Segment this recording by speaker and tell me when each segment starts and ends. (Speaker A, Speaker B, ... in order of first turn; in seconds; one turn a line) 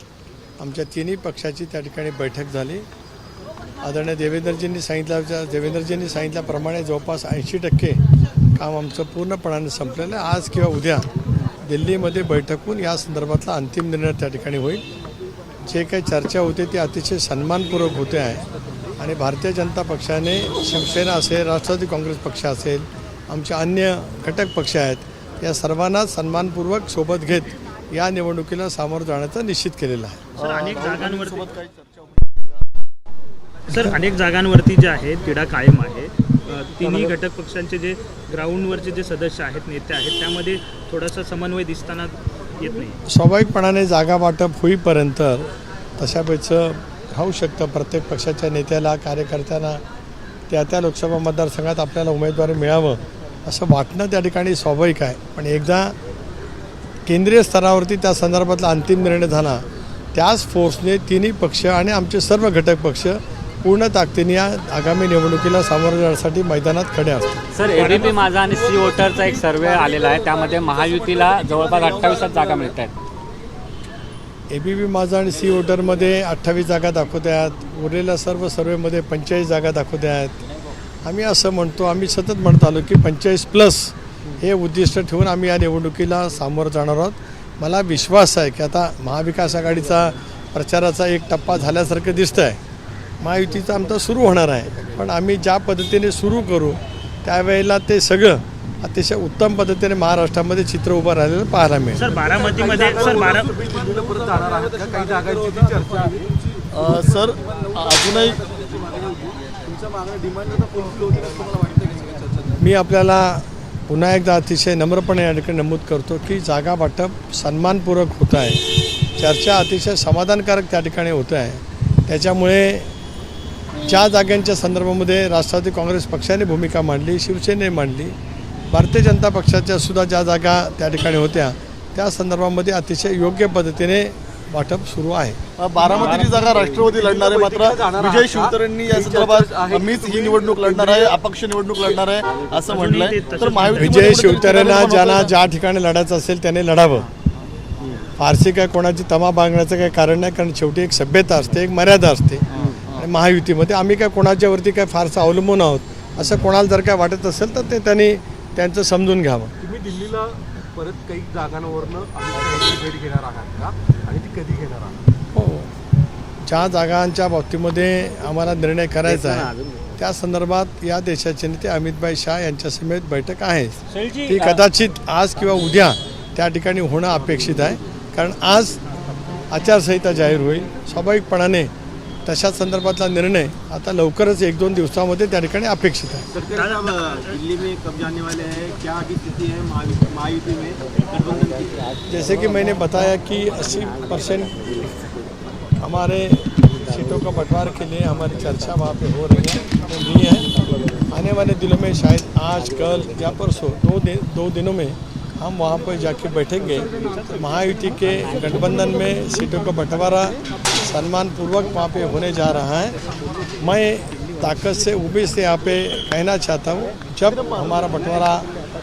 Speaker A: 0.6-2.8
Speaker A: 3.8-8.0
Speaker A: 8.5-11.1
Speaker A: 11.6-14.8
Speaker A: 15.7-18.4
Speaker A: 19.0-30.3
Speaker B: 30.4-32.4
Speaker C: 30.4-31.5
Speaker C: 33.7-43.0
Speaker A: 43.1-49.8
Speaker A: 50.5-55.9
Speaker A: 57.0-67.4
Speaker D: 67.5-72.9
Speaker C: 67.7-68.1
Speaker E: 67.8-71.7
Speaker A: 74.5-80.3
Speaker A: 81.0-92.6
Speaker A: 93.2-102.1
Speaker C: 102.0-103.5
Speaker E: 102.2-112.6
Speaker F: 103.6-104.2
Speaker F: 105.2-105.5
Speaker B: 106.7-108.4
Speaker A: 112.6-118.6
Speaker A: 119.2-122.9
Speaker A: 123.8-128.1
Speaker A: 128.7-135.4
Speaker B: 135.6-145.3
Speaker E: 135.9-141.2
Speaker F: 135.9-136.2
Speaker E: 141.8-142.1
Speaker C: 142.7-143.9
Speaker A: 143.7-147.1
Speaker A: 148.2-159.5
Speaker B: 152.6-153.1
Speaker E: 159.6-165.0
Speaker A: 165.3-165.7
Speaker A: 166.4-178.8
Speaker D: 169.0-169.9
Speaker D: 173.9-174.6
Speaker F: 177.3-177.8
Speaker A: 179.5-181.7
Speaker A: 182.2-186.3
Speaker F: 186.3-192.0
Speaker C: 186.5-187.4
Speaker A: 192.1-194.9
Speaker A: 195.8-200.4
Speaker A: 201.1-212.9
Speaker A: 213.6-218.5
Speaker F: 217.4-217.7